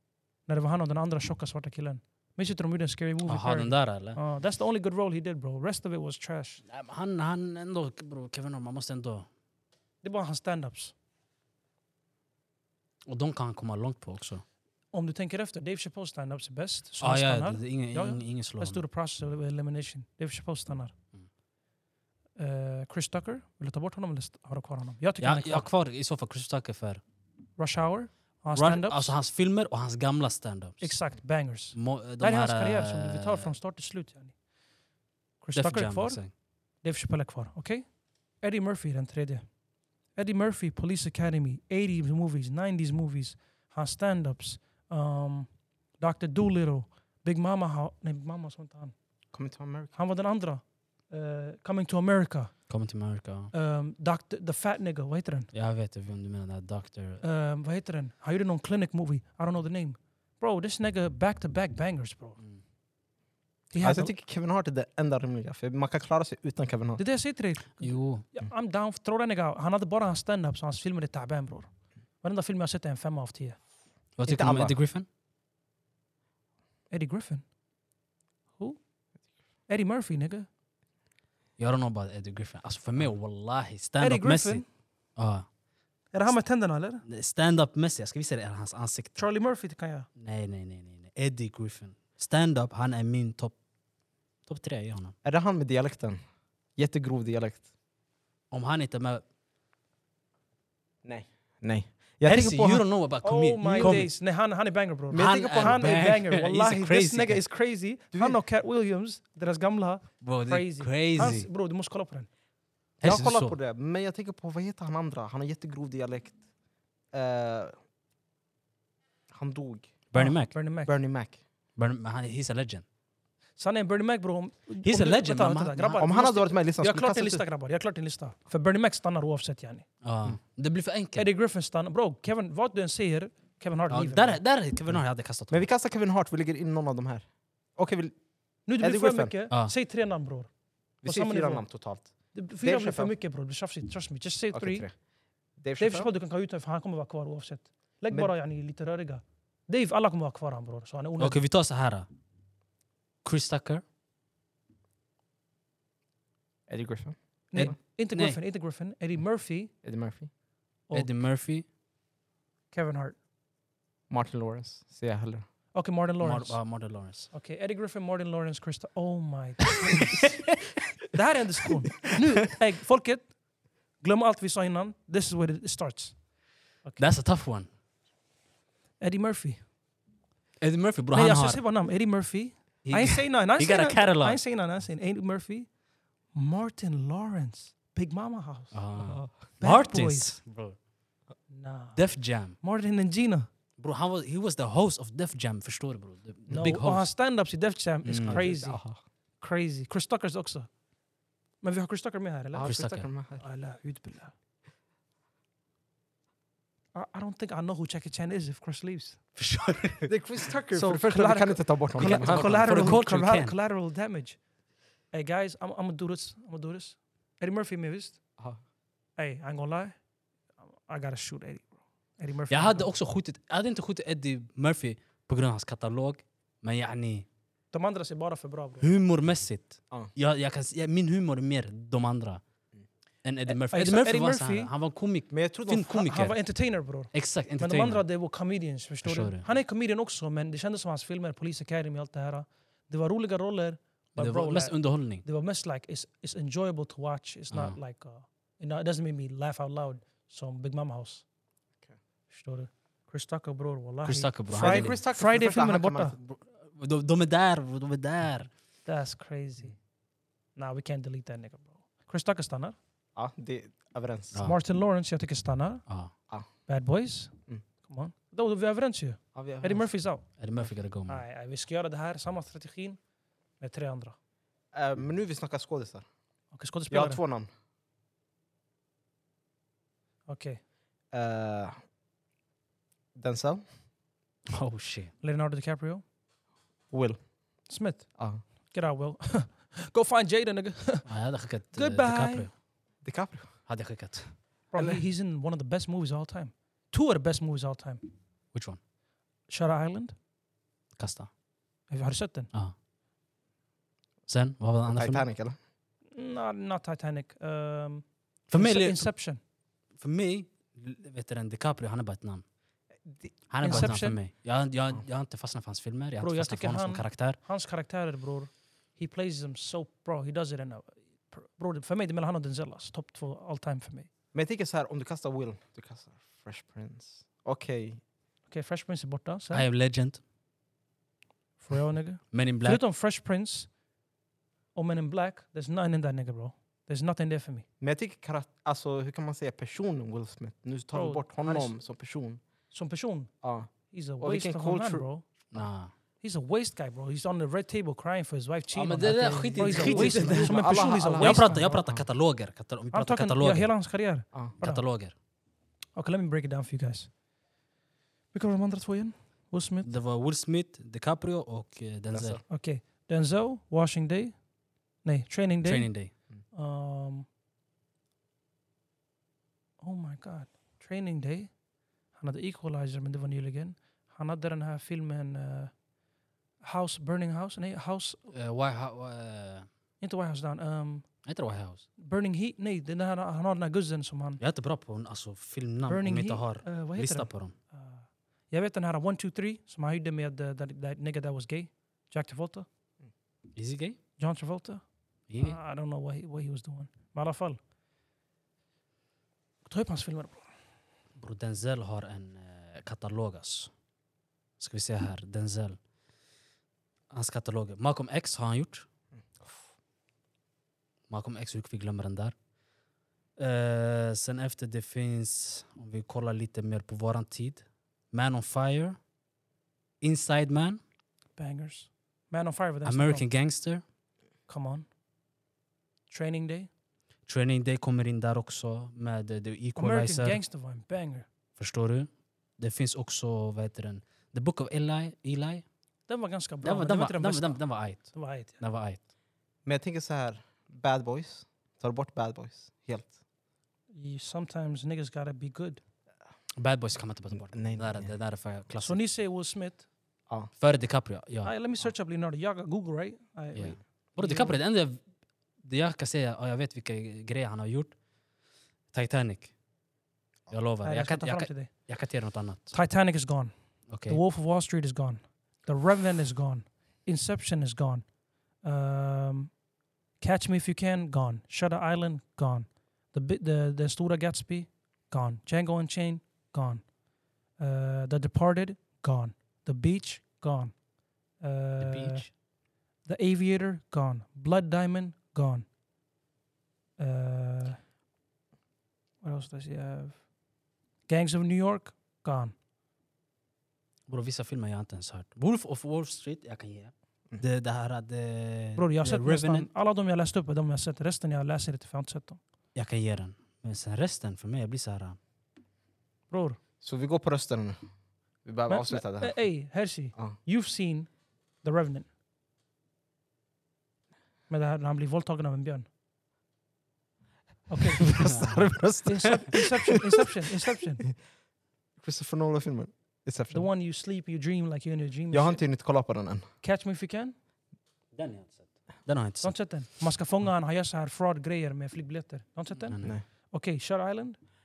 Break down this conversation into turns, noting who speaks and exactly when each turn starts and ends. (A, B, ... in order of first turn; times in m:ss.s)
0:00.5-0:06.6 A
0:03.3-0:04.2 B
0:06.7-0:09.3 B
0:10.0-0:10.9 A
0:13.1-0:14.4 B
0:14.9-0:21.0 A
0:17.0-0:18.8 B
0:22.4-0:25.7 A
0:25.2-0:27.0 B
0:27.6-0:29.1 A
0:28.5-0:31.0 B
0:30.8-0:34.4 A
0:31.8-0:33.5 B
0:35.4-0:39.5 A
0:35.5-0:36.3 B
0:40.2-0:49.0 A
0:49.3-0:49.9 C
0:50.0-0:52.7 A
0:52.7-0:53.5 B
0:53.5-0:55.5 A
0:55.5-0:57.2 B
0:57.2-1:02.4 A
1:03.7-1:04.1 A
1:03.8-1:07.0 C
1:07.0-1:11.7 A
1:07.8-1:08.3 B
1:12.2-1:13.6 A
1:14.2-1:15.1 B
1:14.3-1:14.8 C
1:16.9-1:17.4 A
1:19.7-1:20.5 A
1:21.6-1:24.6 B
1:24.0-1:24.7 A
1:25.2-1:25.5 B
1:26.1-1:27.0 A
1:27.0-1:29.2 B
1:29.2-1:30.1 A
1:30.2-1:33.6 B
1:34.5-1:35.2 B
1:35.2-1:36.2 C
1:36.8-1:37.7 C
1:38.5-1:39.2 B
1:41.0-1:42.9 C
1:42.3-1:44.1 B
1:43.2-1:52.3 A
1:43.6-1:44.1 C
1:45.1-1:46.0 C
1:45.1-1:47.4 B
1:48.1-1:48.4 C
1:50.2-1:51.5 B
1:53.0-1:53.6 B
1:53.0-1:56.4 C
1:57.1-1:57.7 C
1:59.3-2:00.1 C
2:00.1-2:00.6 B
2:00.2-2:00.9 A
2:00.8-2:01.4 C
2:01.8-2:02.8 B
2:03.6-2:09.9 A
2:04.8-2:06.1 B
2:06.0-2:07.4 C
2:10.0-2:11.3 B
2:11.2-2:14.4 A
2:13.9-2:15.6 B
2:14.9-2:18.2 C
2:18.7-2:20.5 A
2:18.8-2:19.3 C
2:21.0-2:23.1 C
2:21.0-2:21.7 A
2:22.3-2:24.9 A
2:24.5-2:25.0 C
2:25.6-2:26.1 C
2:25.8-2:31.4 A
2:31.2-2:32.1 B
2:33.2-2:33.8 B
2:36.7-2:37.8 C
2:37.5-2:39.7 A
2:37.6-2:38.4 B
2:39.8-2:40.3 C
2:40.9-2:41.1 A
2:40.9-2:41.7 B
2:42.7-2:43.2 A
2:44.1-2:45.4 C
2:45.7-2:50.4 A
2:46.2-2:47.3 B
2:50.0-2:50.6 B
2:51.1-2:53.4 A
2:54.0-2:56.2 A
2:57.0-2:57.7 B
2:59.0-2:59.7 A
3:00.6-3:01.6 B
3:01.1-3:05.7 A
3:02.8-3:04.4 B
3:06.3-3:08.8 A
3:08.7-3:10.8 B
3:09.0-3:09.3 C
3:09.6-3:10.4 A
3:11.5-3:13.5 A
3:12.0-3:12.6 B
3:13.8-3:17.1 B
3:16.5-3:16.7 C
3:16.5-3:18.8 A
3:18.0-3:18.5 B
3:18.2-3:19.0 C
3:19.4-3:20.7 A
3:21.6-3:22.8 A
3:22.5-3:23.4 C
3:22.6-3:23.1 B
3:23.4-3:24.3 A
3:27.0-3:29.2 A
3:29.4-3:30.1 B
3:30.1-3:33.0 C
3:30.7-3:34.4 A
3:32.0-3:33.5 B
3:35.1-3:38.2 A
3:39.2-3:40.0 A
3:40.9-3:42.9 A
3:42.5-3:47.3 B
3:47.7-3:48.9 A
3:48.8-3:52.4 B
3:53.2-3:56.4 B
3:53.5-3:54.7 A
3:55.3-3:56.2 C
3:55.9-4:11.2 A
3:57.1-3:58.0 B
3:59.0-3:59.5 B
4:04.2-4:05.2 B
4:07.5-4:07.8 B
4:12.3-4:16.2 A
4:14.0-4:15.0 B
4:14.5-4:16.2 C
4:16.2-4:18.5 B
4:18.8-4:19.8 A
4:20.6-4:22.8 A
4:23.2-4:24.4 C
4:24.4-4:25.9 A
4:25.9-4:26.1 B
4:26.7-4:30.3 A
4:29.3-4:29.9 C
4:30.4-4:31.2 B
4:31.1-4:33.0 A
4:33.6-4:34.2 A
4:34.7-4:36.0 C
4:36.5-4:37.2 A
4:36.9-4:37.5 C
4:40.3-4:40.6 A
4:41.1-4:41.8 C
4:43.2-4:43.6 C
4:44.5-4:45.1 B
4:45.2-4:46.0 A
4:46.9-4:47.2 C
4:47.7-4:51.1 A
4:48.2-4:48.4 C
4:51.0-4:52.5 B
4:51.7-4:52.5 A
4:53.0-4:53.6 C
4:53.7-4:54.4 B
4:54.7-4:58.1 A
4:54.8-4:55.0 C
4:58.5-4:58.8 B
4:59.5-5:00.2 A
5:01.0-5:01.3 B
5:01.9-5:02.5 A
5:04.3-5:05.2 B
5:04.9-5:05.6 C
5:06.1-5:09.4 A
5:08.5-5:09.1 B
5:10.0-5:12.4 B
5:13.1-5:14.0 C
5:13.5-5:17.4 B
5:13.6-5:14.2 A
5:16.2-5:24.1 A
5:24.3-5:28.0 C
5:28.5-5:29.7 A
5:29.5-5:30.2 B
5:31.6-5:33.7 A
5:32.3-5:32.8 B
5:34.8-5:37.7 A
5:37.8-5:42.4 C
5:40.9-5:41.7 A
5:42.7-5:43.3 A
5:43.4-5:45.0 C
5:43.9-5:45.3 A
5:45.5-5:45.9 B
5:46.2-5:51.8 A
5:48.7-5:53.7 B
5:49.0-5:52.0 C
5:52.9-5:54.9 A
5:54.6-5:55.2 B
5:56.0-5:57.1 A
5:58.3-5:59.9 A
5:59.8-6:02.4 B
6:02.1-6:02.4 C
6:02.5-6:04.4 A
6:05.0-6:07.3 A
6:05.6-6:06.1 B
6:09.8-6:11.5 A
6:12.1-6:15.8 A
6:16.6-6:18.3 A
6:18.3-6:19.7 B
6:20.0-6:21.2 A
6:21.2-6:21.9 B
6:22.0-6:24.4 A
6:24.4-6:27.5 B
6:25.9-6:32.7 A
6:33.6-6:34.0 B
6:34.2-6:34.8 A
6:35.3-6:35.6 B
6:35.4-6:37.6 A
6:39.6-6:40.5 A
6:41.2-6:43.7 B
6:44.6-6:45.8 B
6:47.1-6:48.9 B
6:51.1-6:52.4 B
6:53.4-6:59.0 B
7:00.0-7:00.8 B
7:01.4-7:03.3 A
7:02.8-7:03.8 B
7:04.5-7:04.9 A
7:06.1-7:06.7 A
7:07.3-7:10.4 B
7:09.8-7:11.3 A
7:11.6-7:15.6 B
7:16.1-7:18.6 A
7:16.6-7:19.0 B
7:19.6-7:23.2 C
7:23.9-7:25.8 A
7:26.6-7:29.0 B
7:27.5-7:28.1 C
7:28.8-7:29.9 A
7:30.6-7:31.5 B
7:31.4-7:34.6 A
7:33.5-7:35.0 B
7:35.6-7:38.0 B
7:38.9-7:39.5 B
7:40.5-7:42.8 B
7:40.8-7:41.9 A
7:42.7-7:48.1 A
7:43.9-7:44.2 B
7:48.6-7:49.6 A
7:50.2-7:56.9 A
7:57.6-8:02.3 A
8:01.8-8:02.3 B
8:03.0-8:05.7 A
8:07.0-8:07.8 A
8:09.2-8:10.3 A
8:11.1-8:12.5 A
8:14.1-8:19.7 B
8:18.8-8:22.4 A
8:22.8-8:25.2 B
8:26.3-8:26.6 A
8:26.8-8:27.8 C
8:28.4-8:29.4 C
8:28.7-8:32.1 A
8:34.5-8:35.9 A
8:37.7-8:38.5 A
8:38.0-8:40.8 C
8:38.1-8:38.7 B
8:39.1-8:41.1 A
8:42.0-8:43.7 C
8:43.5-8:45.7 A
8:45.3-8:46.5 C
8:46.6-8:47.4 A
8:48.1-8:49.6 B
8:49.4-8:54.4 A
8:52.8-8:53.2 B